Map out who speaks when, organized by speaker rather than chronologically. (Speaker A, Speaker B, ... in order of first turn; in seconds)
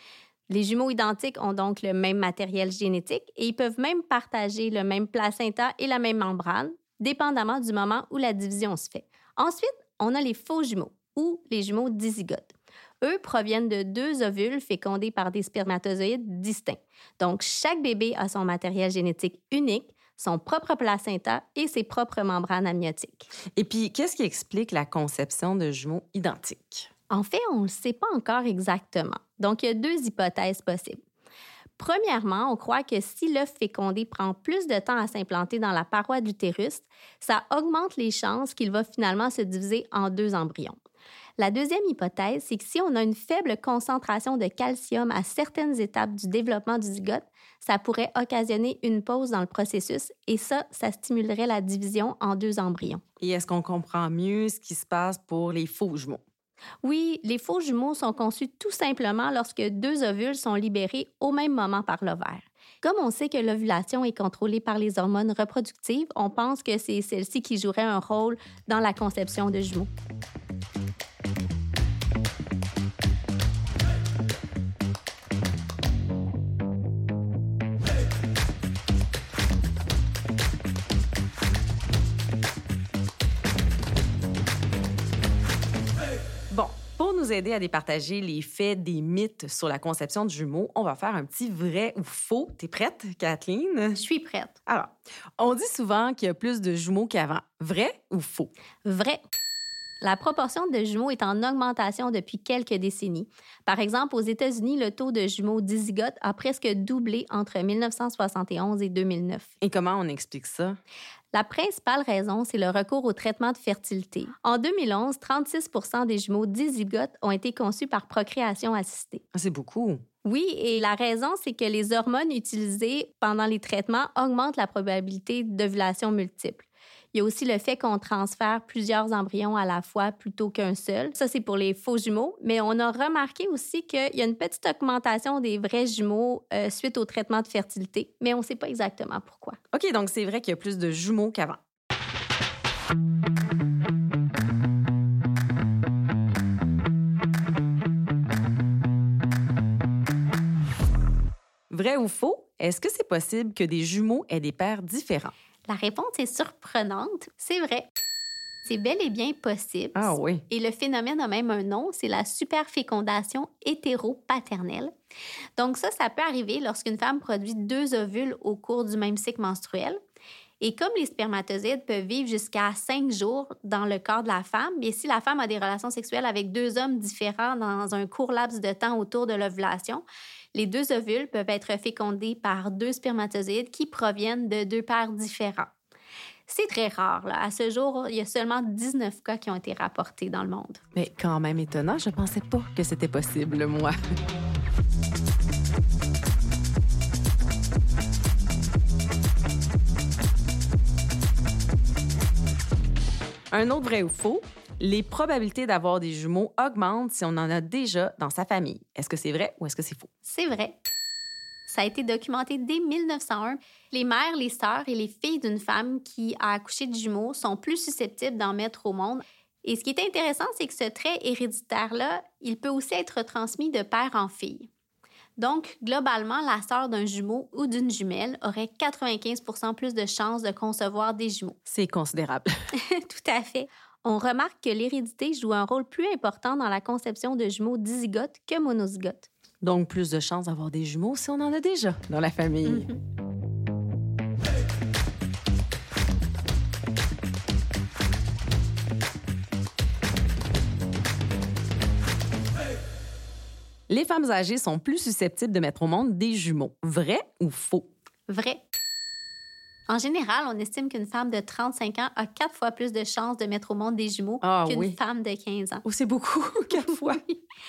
Speaker A: 0.5-23.3, 27.1-31.0, 31.8-40.8, 41.4-53.0, 56.8-69.9, 94.0-94.5, 98.8-99.2, 100.0-109.5, 111.3-119.2, 120.2-139.6, 155.7-157.9, 158.7-164.9, 165.6-170.0, 170.6-185.7, 186.5-190.8, 210.3-210.8, 211.7-224.7, 225.4-231.6, 232.8-239.3, 242.7-243.0, 258.3-258.6, 259.9-265.9
Speaker B: 23.6-26.9, 53.2-56.2, 86.5-94.0, 94.7-98.5, 109.6-110.8, 119.3-120.0, 139.7-141.6, 151.7-155.3, 159.9-160.4, 190.9-193.9, 203.5-210.1, 231.7-232.5, 239.6-242.9, 253.9-257.9, 264.4-265.0, 265.9-267.2